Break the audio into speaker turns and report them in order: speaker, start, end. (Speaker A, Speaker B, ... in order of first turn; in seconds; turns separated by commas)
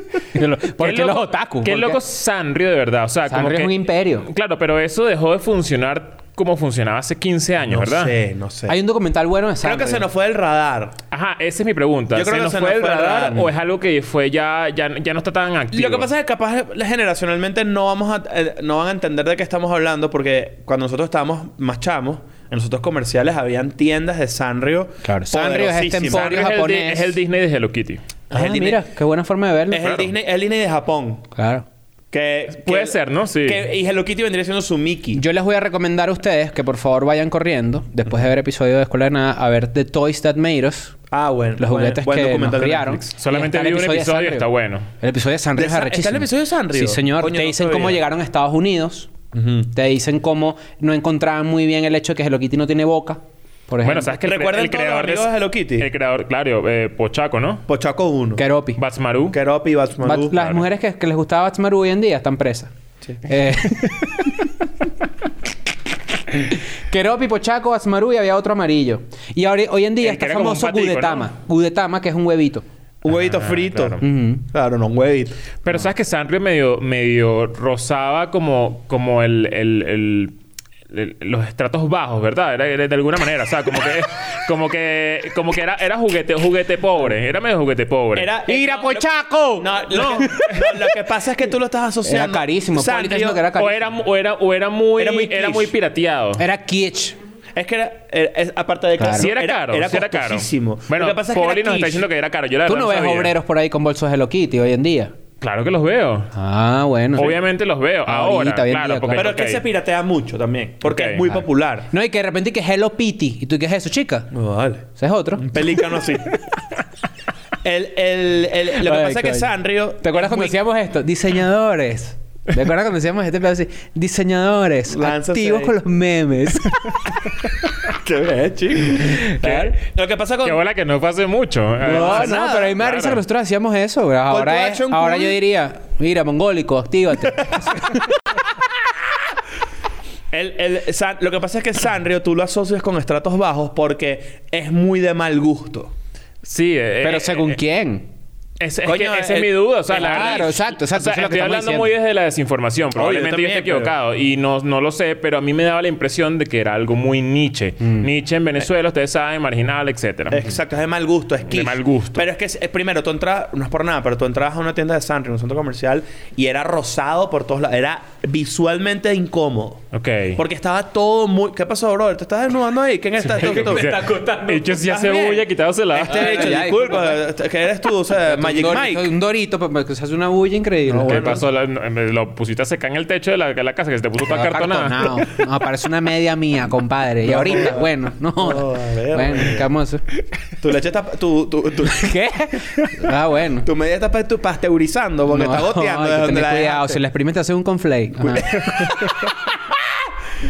Speaker A: 0.3-2.0, Speaker B: 0.8-8.1, Speaker A: 3.3-4.3, Speaker C: 7.7-8.8, Speaker A: 8.7-10.1, Speaker C: 9.6-11.0, Speaker B: 11.1-16.1, Speaker C: 12.1-13.5, Speaker C: 15.7-26.3, Speaker A: 25.0-27.1, Speaker B: 26.0-28.0, Speaker C: 28.3-28.8, Speaker A: 28.3-29.9, Speaker C: 29.7-31.3, Speaker B: 29.8-30.1, Speaker A: 31.3-31.6, Speaker C: 32.1-35.2, Speaker B: 32.6-33.6, Speaker A: 35.1-41.0, Speaker C: 41.1-43.0, Speaker A: 41.6-44.5, Speaker B: 43.2-44.9, Speaker A: 45.0-49.1, Speaker C: 45.6-48.0, Speaker C: 49.3-49.7, Speaker A: 49.7-54.1, Speaker B: 53.8-57.6, Speaker C: 54.2-55.9, Speaker C: 57.7-58.4, Speaker A: 58.4-58.8, Speaker B: 58.8-59.4, Speaker C: 59.3-60.4, Speaker A: 60.0-62.7, Speaker B: 60.3-60.6, Speaker A: 63.2-64.2, Speaker A: 66.3-72.6, Speaker B: 70.0-71.3, Speaker C: 73.0-75.4, Speaker B: 73.1-74.0, Speaker A: 74.0-74.4, Speaker B: 75.6-80.3, Speaker B: 80.9-88.3, Speaker C: 88.2-93.4, Speaker A: 88.5-90.8, Speaker B: 90.0-90.5, Speaker A: 92.0-93.8, Speaker B: 93.5-96.4, Speaker C: 95.0-95.7, Speaker A: 96.4-97.2, Speaker C: 97.5-102.1, Speaker A: 99.0-99.3, Speaker B: 99.1-103.3, Speaker A: 102.7-105.1, Speaker B: 105.4-106.3, Speaker A: 106.3-107.4, Speaker B: 107.2-109.7, Speaker A: 108.1-109.3, Speaker C: 109.1-111.9, Speaker B: 110.8-111.3, Speaker A: 111.9-114.3, Speaker C: 114.3-116.3, Speaker A: 115.0-115.8, Speaker C: 117.6-120.6, Speaker A: 118.8-119.5, Speaker A: 120.0-127.0, Speaker C: 124.9-125.8, Speaker C: 127.8-130.7, Speaker A: 129.0-129.8, Speaker B: 130.4-133.2, Speaker C: 131.8-132.8, Speaker A: 131.8-138.1, Speaker C: 134.3-135.4, Speaker C: 137.4-137.8, Speaker C: 140.3-145.9, Speaker B: 146.4-147.6, Speaker A: 147.0-148.1, Speaker B: 148.6-160.6, Speaker C: 148.8-150.4, Speaker A: 149.9-151.9, Speaker C: 152.9-153.9, Speaker C: 160.3-169.8, Speaker B: 161.5-162.2, Speaker B: 169.9-170.4, Speaker C: 170.4-174.0, Speaker B: 173.2-176.6, Speaker A: 173.4-174.8, Speaker C: 174.8-179.1, Speaker A: 176.1-177.2, Speaker A: 178.2-181.4, Speaker B: 180.9-185.3, Speaker C: 181.0-181.4, Speaker A: 184.2-190.0, Speaker C: 187.2-189.7, Speaker C: 190.6-192.1, Speaker A: 191.9-193.7, Speaker C: 193.6-197.0, Speaker A: 195.3-199.0, Speaker C: 198.2-200.0